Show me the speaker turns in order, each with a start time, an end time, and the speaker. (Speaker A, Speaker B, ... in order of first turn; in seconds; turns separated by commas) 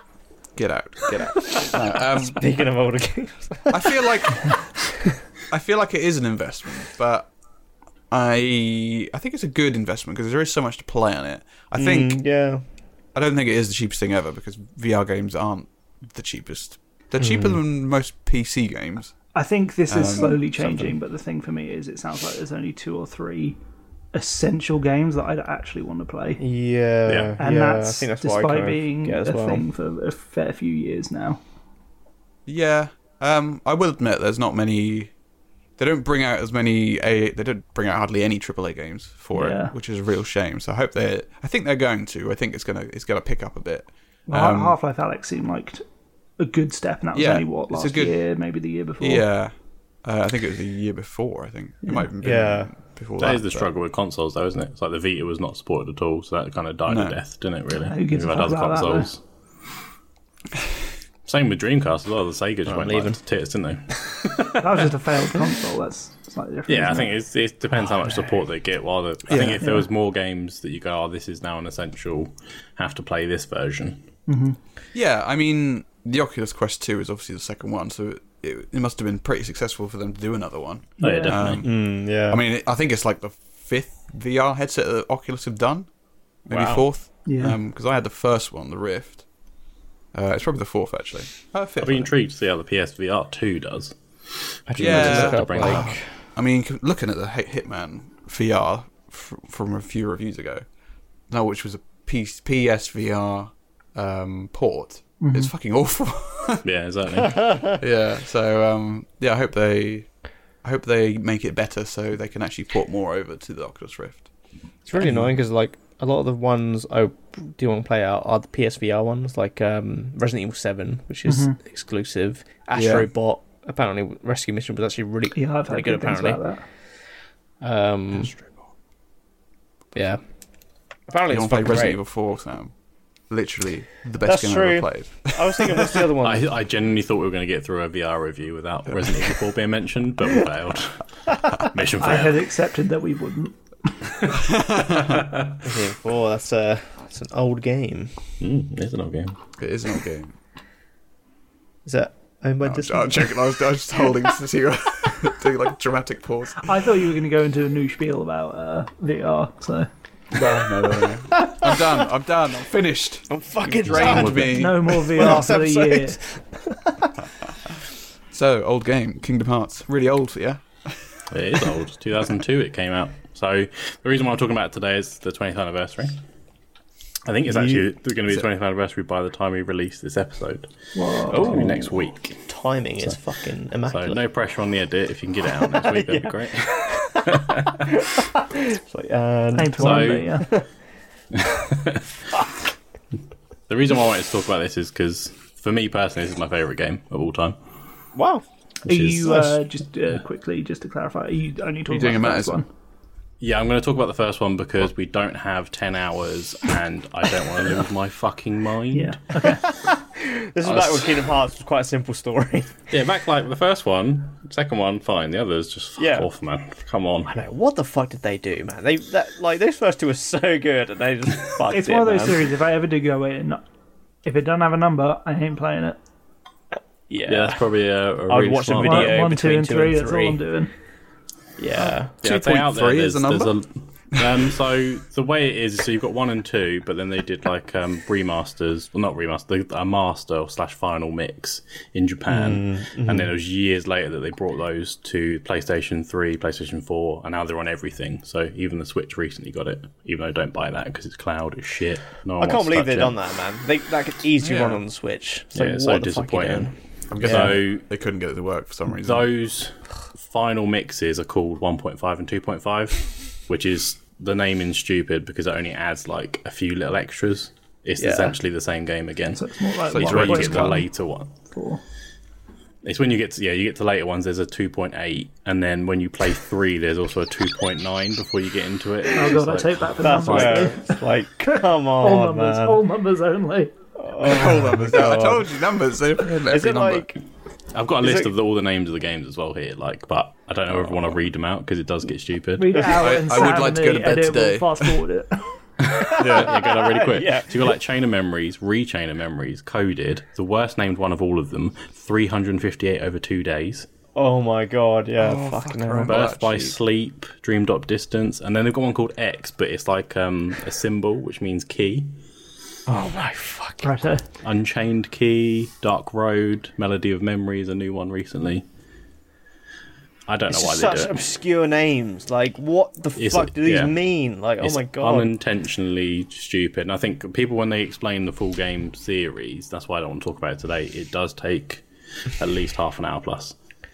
Speaker A: 0.6-2.4, Speaker B: 2.3-4.5, Speaker A: 3.7-4.7, Speaker A: 5.5-7.3, Speaker A: 8.1-12.2, Speaker B: 11.8-12.6, Speaker A: 13.1-19.2, Speaker B: 17.2-17.6, Speaker C: 19.3-23.6, Speaker A: 19.9-20.9, Speaker C: 24.1-26.4, Speaker B: 26.4-29.6, Speaker D: 27.0-27.4, Speaker C: 27.4-31.4, Speaker A: 32.5-35.1, Speaker A: 35.8-44.8, Speaker C: 39.3-39.7, Speaker C: 44.3-45.8, Speaker C: 46.4-49.2, Speaker A: 47.1-48.2, Speaker A: 49.0-53.7, Speaker C: 51.8-52.1, Speaker B: 52.2-52.7, Speaker D: 53.2-59.2, Speaker A: 56.9-57.2, Speaker C: 57.9-59.1, Speaker D: 61.2-64.5, Speaker B: 62.7-63.2, Speaker C: 64.6-67.1, Speaker D: 66.7-74.0, Speaker A: 69.3-69.7, Speaker C: 69.6-69.8, Speaker C: 74.3-74.6, Speaker A: 74.9-85.9, Speaker C: 81.0-81.4, Speaker D: 81.0-81.6, Speaker B: 81.6-82.4, Speaker A: 86.5-89.2, Speaker C: 87.2-87.6, Speaker A: 90.1-92.1, Speaker D: 91.8-93.9, Speaker D: 94.7-95.9, Speaker B: 94.7-96.0, Speaker A: 94.8-100.6, Speaker A: 101.3-106.6, Speaker C: 105.2-105.5, Speaker D: 106.6-107.7, Speaker A: 107.8-110.1, Speaker A: 110.6-114.3, Speaker B: 114.9-126.4, Speaker A: 115.0-115.3, Speaker C: 121.2-121.6, Speaker A: 122.7-123.1, Speaker C: 125.3-126.6, Speaker B: 127.6-128.3, Speaker B: 129.9-130.2, Speaker B: 131.1-132.0, Speaker A: 131.3-132.7, Speaker A: 133.3-136.1, Speaker B: 134.2-136.5, Speaker D: 136.2-142.5, Speaker C: 142.0-143.6, Speaker A: 144.4-145.2, Speaker D: 145.1-145.4, Speaker B: 145.6-148.1, Speaker D: 148.4-149.3, Speaker A: 149.6-150.3, Speaker B: 151.8-153.5, Speaker A: 152.6-156.7, Speaker C: 156.6-159.9, Speaker A: 160.3-165.4, Speaker B: 161.4-161.7, Speaker B: 163.3-167.1, Speaker D: 163.8-164.6, Speaker C: 164.5-166.2, Speaker A: 168.3-171.0, Speaker D: 171.3-176.2, Speaker D: 177.2-180.7, Speaker B: 177.5-177.8, Speaker C: 180.9-181.6, Speaker B: 181.3-184.2, Speaker D: 181.3-182.4, Speaker D: 183.8-187.9, Speaker B: 185.7-190.7, Speaker C: 189.6-190.5, Speaker D: 189.8-190.4, Speaker D: 191.3-192.0, Speaker D: 193.7-197.6, Speaker B: 198.1-198.4, Speaker D: 198.8-199.3, Speaker C: 198.8-202.7, Speaker B: 199.2-199.5, Speaker A: 201.9-202.6, Speaker D: 203.4-209.3, Speaker C: 208.9-209.7, Speaker B: 209.6-212.7, Speaker D: 210.6-210.9, Speaker D: 212.9-217.3, Speaker B: 216.0-216.3, Speaker B: 217.3-222.4, Speaker C: 221.7-223.6, Speaker C: 224.2-226.0, Speaker B: 227.1-227.6, Speaker D: 227.3-229.2, Speaker B: 228.3-230.4, Speaker C: 228.8-230.7, Speaker B: 231.6-232.1, Speaker A: 231.8-233.5, Speaker D: 232.2-253.1, Speaker B: 242.3-243.3, Speaker B: 252.4-257.6, Speaker A: 254.4-254.8, Speaker D: 255.5-257.8, Speaker A: 257.1-259.3, Speaker D: 258.9-271.3, Speaker B: 268.0-268.3, Speaker C: 269.3-270.9, Speaker A: 269.9-270.9, Speaker C: 271.5-271.8, Speaker D: 272.8-280.8, Speaker C: 279.1-281.0, Speaker B: 280.0-282.8, Speaker C: 282.0-283.7, Speaker B: 284.0-285.5, Speaker A: 284.2-287.1, Speaker B: 286.3-287.2, Speaker D: 287.7-292.8, Speaker B: 288.0-288.3, Speaker C: 292.6-295.5, Speaker A: 293.0-294.9, Speaker D: 295.8-303.9, Speaker B: 295.9-297.8, Speaker A: 296.2-296.5, Speaker B: 304.1-306.2, Speaker A: 305.2-306.8, Speaker D: 306.1-312.1, Speaker B: 312.9-313.9, Speaker C: 313.8-314.2, Speaker D: 314.4-318.6, Speaker D: 320.3-321.2, Speaker B: 320.5-325.3, Speaker D: 323.1-323.9, Speaker D: 324.6-333.6